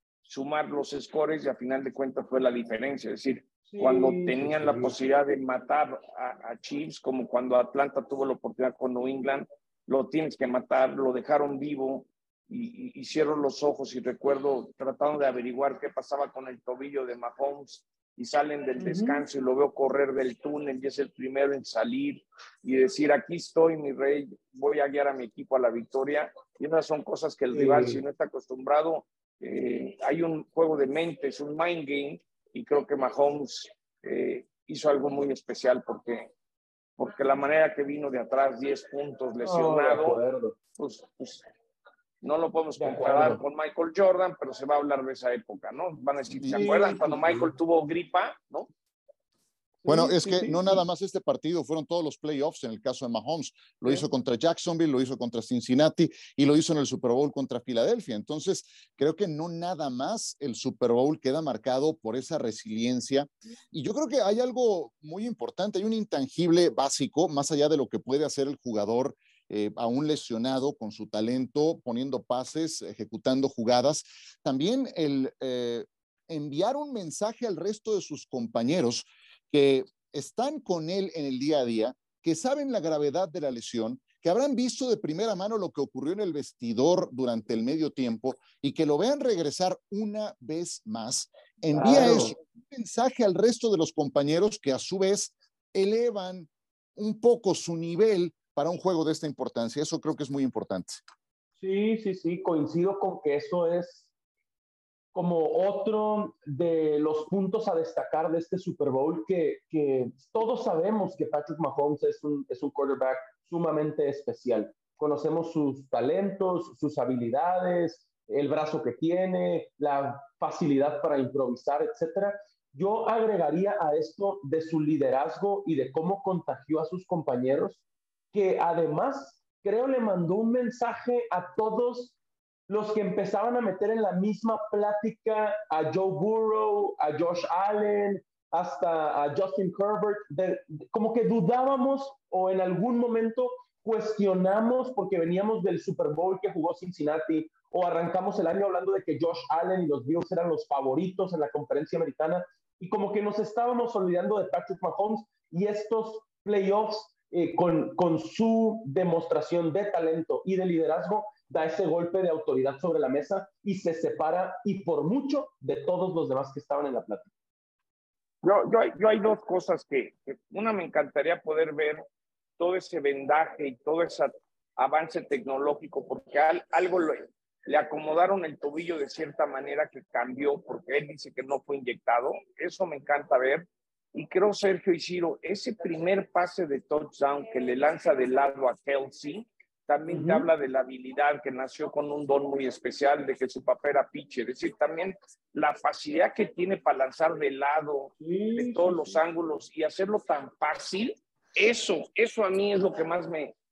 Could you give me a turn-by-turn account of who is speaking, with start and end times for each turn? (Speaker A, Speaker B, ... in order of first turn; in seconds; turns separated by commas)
Speaker A: 0.3-36.3, Speaker B: 3.7-4.9, Speaker B: 18.8-19.2, Speaker B: 27.5-28.0, Speaker A: 37.0-40.2, Speaker B: 39.4-40.5, Speaker A: 40.8-41.5, Speaker A: 42.2-48.7, Speaker B: 42.8-43.4, Speaker C: 46.3-46.7, Speaker B: 46.5-47.5, Speaker B: 49.8-50.8, Speaker C: 49.9-101.0, Speaker B: 91.7-92.3, Speaker B: 101.6-104.1, Speaker B: 105.1-127.8, Speaker B: 128.3-132.2, Speaker B: 132.7-167.3, Speaker A: 168.4-172.0, Speaker A: 172.6-203.6, Speaker B: 190.1-190.5, Speaker B: 198.2-199.2